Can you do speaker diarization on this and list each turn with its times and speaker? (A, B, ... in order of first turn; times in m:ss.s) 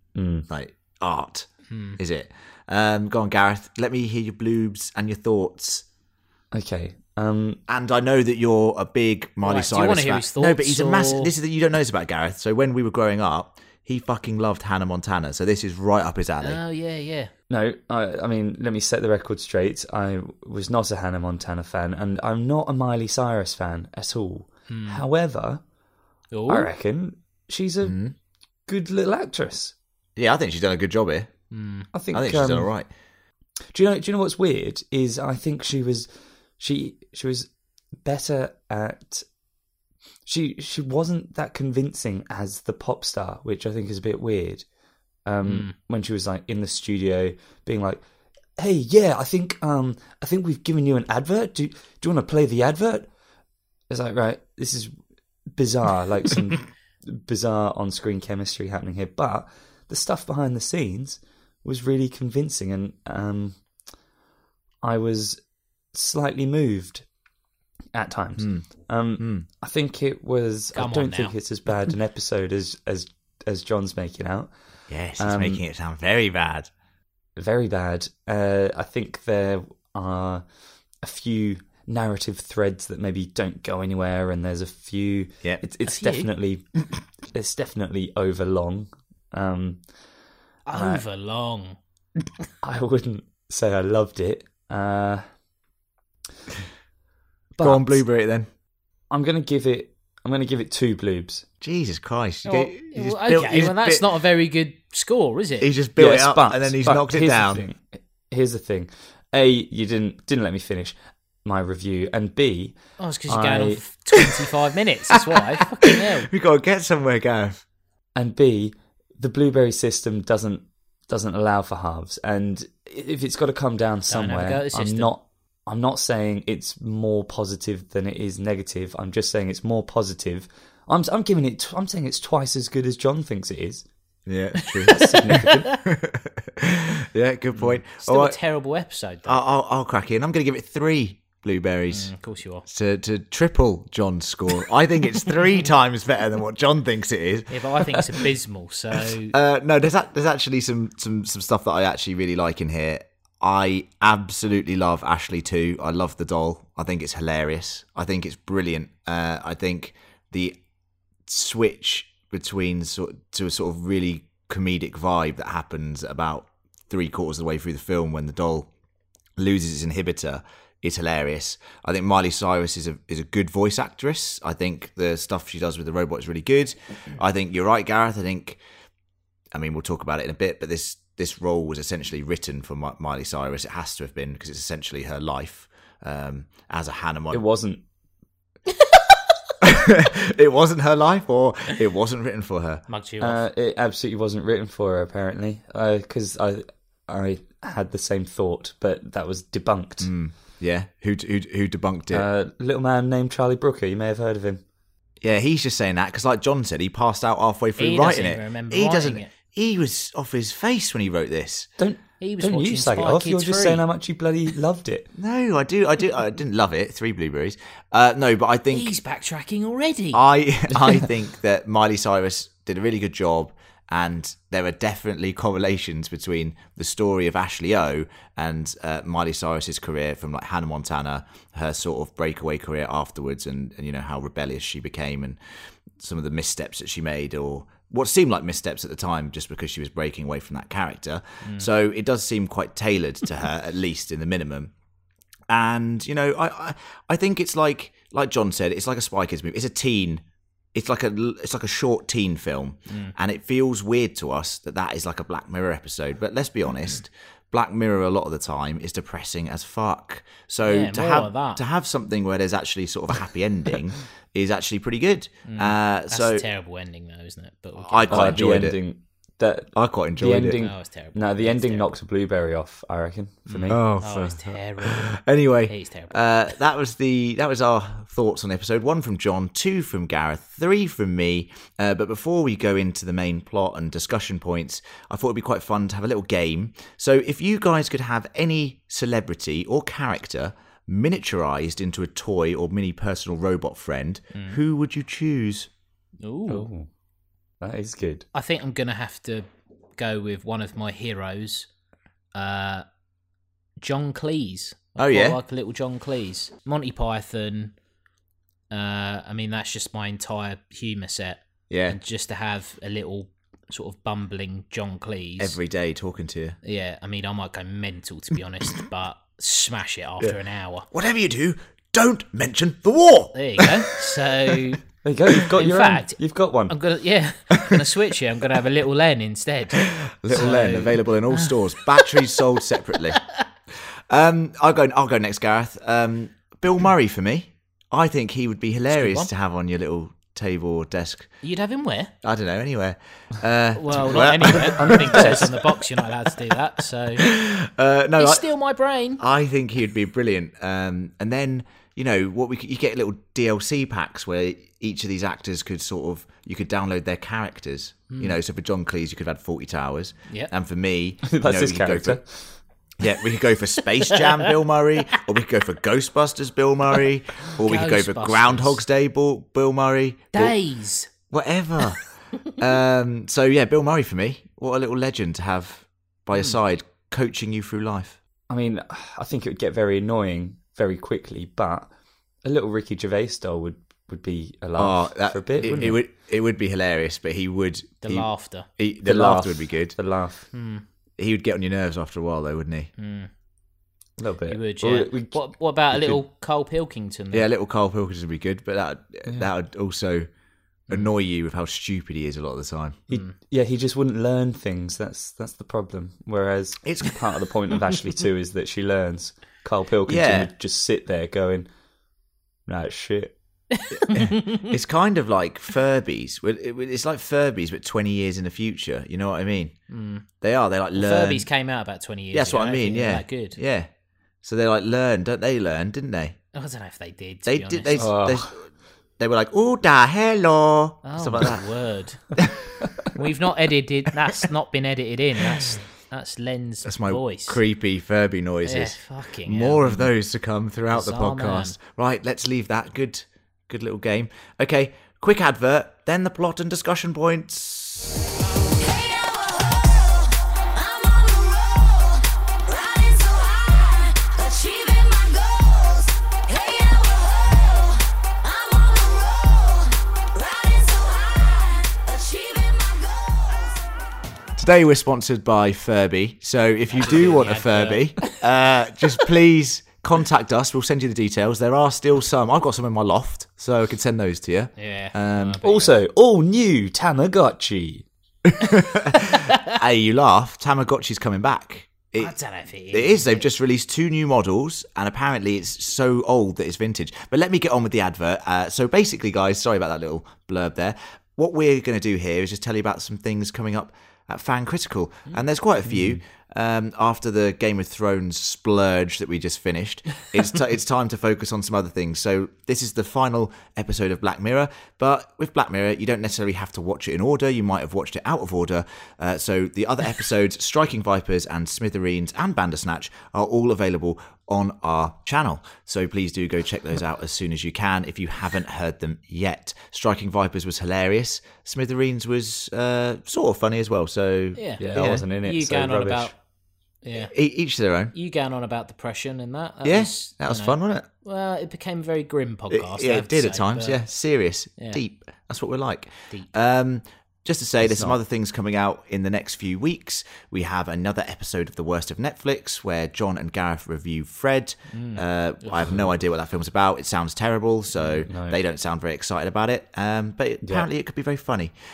0:00.1-0:00.4 A
0:00.5-0:05.8 B
0:01.7-0:02.0 C
0:06.5-0:07.6 A
0:07.7-0:16.6 B
0:09.4-0:11.3 C
0:16.4-0:17.3 C
0:17.5-0:25.6 A
0:24.7-0:25.0 C
0:26.3-0:26.7 C
0:26.5-0:28.0 A
0:27.8-0:28.1 B
0:28.7-0:29.7 A
0:30.2-0:31.3 B
0:31.5-0:31.9 C
0:31.9-0:32.7 A
0:32.1-0:32.8 B
0:33.7-0:36.1 A
0:36.6-0:37.5 A
0:38.0-0:39.2 A
0:40.2-0:44.6 A
0:45.2-0:48.0 A
0:45.4-0:45.7 C
0:48.6-0:53.1 A
0:53.9-0:54.9 A
0:55.5-1:03.6 A
1:04.8-1:05.4 A
1:05.9-1:07.0 A
1:07.9-1:14.5 A
1:08.4-1:08.6 B
1:09.2-1:09.5 B
1:10.7-1:11.3 C
1:14.9-1:16.7 B
1:15.2-1:15.6 A
1:17.4-1:20.4 A
1:21.0-1:26.8 A
1:25.8-1:26.3 C
1:27.3-1:29.8 A
1:30.6-1:31.8 C
1:30.7-1:31.0 A
1:32.6-1:35.2 A
1:37.5-1:38.0 A
1:37.6-1:38.5 B
1:39.1-1:41.4 A
1:41.6-1:44.1 B
1:42.4-1:45.7 C
1:45.6-1:47.6 B
1:46.0-1:53.8 A
1:53.0-1:56.3 C
1:55.3-1:57.6 B
1:58.1-2:13.8 A
2:04.1-2:05.1 C
2:14.2-2:15.2 B
2:14.8-2:15.8 C
2:14.9-2:15.7 A
2:15.8-2:18.4 B
2:17.6-2:19.4 C
2:19.2-2:22.1 B
2:21.9-2:22.6 C
2:22.6-2:28.2 B
2:27.5-2:29.3 C
2:29.3-2:40.6 B
2:41.2-2:48.7 B
2:49.4-2:58.6 B
2:59.5-3:07.4 B
3:07.3-3:07.8 A
3:09.6-3:12.8 B
3:12.9-3:13.4 C
3:13.2-3:20.1 A
3:20.0-3:22.2 B
3:22.1-3:24.6 A
3:25.2-3:31.7 B
3:27.8-3:29.3 C
3:31.8-3:35.1 A
3:32.2-3:33.8 C
3:35.2-3:39.0 B
3:38.7-3:40.2 C
3:40.1-3:55.4 B
3:56.0-4:04.7 B
4:05.5-4:10.2 B
4:10.7-4:26.4 B
4:12.9-4:13.1 C
4:20.6-4:21.6 C
4:25.4-4:28.7 C
4:27.8-4:28.8 B
4:28.1-4:33.8 A
4:29.7-4:30.6 B
4:30.6-4:31.9 C
4:33.5-4:35.1 C
4:33.7-4:55.7 B
4:35.7-4:36.2 C
4:56.2-4:56.7 C
4:56.5-4:56.9 A
4:57.6-4:58.2 A
4:58.3-4:59.4 C
5:00.0-5:01.7 C
5:02.3-5:02.8 C
5:03.8-5:07.7 C
5:05.0-5:05.4 B
5:08.7-5:15.6 C
5:11.7-5:12.0 B
5:15.4-5:16.6 B
5:16.6-5:20.8 C
5:20.9-5:24.3 B
5:23.3-5:24.8 C
5:25.0-5:26.8 A
5:25.5-5:26.2 C
5:26.7-5:32.2 C
5:29.8-5:33.2 B
5:34.1-5:41.3 B
5:38.9-5:39.3 C
5:41.4-5:42.1 C
5:42.2-5:46.0 B
5:43.7-5:47.2 C
5:44.5-5:45.5 A
5:47.2-5:48.4 B
5:48.2-5:49.2 C
5:49.2-6:02.2 B
5:58.1-5:58.4 C
6:01.2-6:02.5 A
6:03.0-6:10.6 B
6:07.6-6:08.8 C
6:10.3-6:11.1 C
6:11.3-6:18.2 B
6:18.5-6:21.9 A
6:22.4-6:26.0 A
6:24.8-6:30.0 B
6:28.0-6:28.7 C
6:29.0-6:30.5 A
6:30.5-6:30.8 C
6:31.2-6:32.9 B
6:33.0-6:33.3 C
6:34.2-6:36.2 A
6:34.5-6:37.5 C
6:37.3-6:40.3 B
6:40.9-6:43.0 B
6:43.1-6:51.7 A
6:46.8-6:47.2 B
6:50.1-6:50.5 B
6:52.7-6:53.3 A
6:53.7-6:54.7 C
6:54.0-6:59.8 B
6:59.9-7:00.2 C
7:00.4-7:01.5 B
7:01.0-7:03.6 C
7:02.3-7:03.9 B
7:04.4-7:06.4 B
7:06.5-7:08.0 C
7:07.5-7:08.6 B
7:08.0-7:08.5 A
7:09.2-7:11.6 B
7:11.0-7:12.3 C
7:12.4-7:12.6 B
7:13.1-7:17.6 C
7:16.8-7:28.2 B
7:18.6-7:20.0 C
7:20.9-7:21.8 C
7:28.8-7:43.8 D
7:44.6-7:55.6 B
7:46.9-7:48.4 C
7:54.8-7:55.9 C
7:55.6-7:58.0 A
7:58.4-8:02.3 B
7:59.3-7:59.6 C
8:02.2-8:03.4 C
8:02.9-8:45.2 B
8:15.9-8:16.2 A
8:44.5-8:46.3 C
8:44.8-8:46.3 A
8:47.0-8:47.3 C
8:47.2-8:48.1 B
8:48.1-8:54.0 C
8:49.8-8:51.1 B
8:52.7-9:11.7 B
8:57.8-8:58.2 A
9:04.9-9:06.0 C
9:08.0-9:08.6 A
9:10.6-9:10.9 A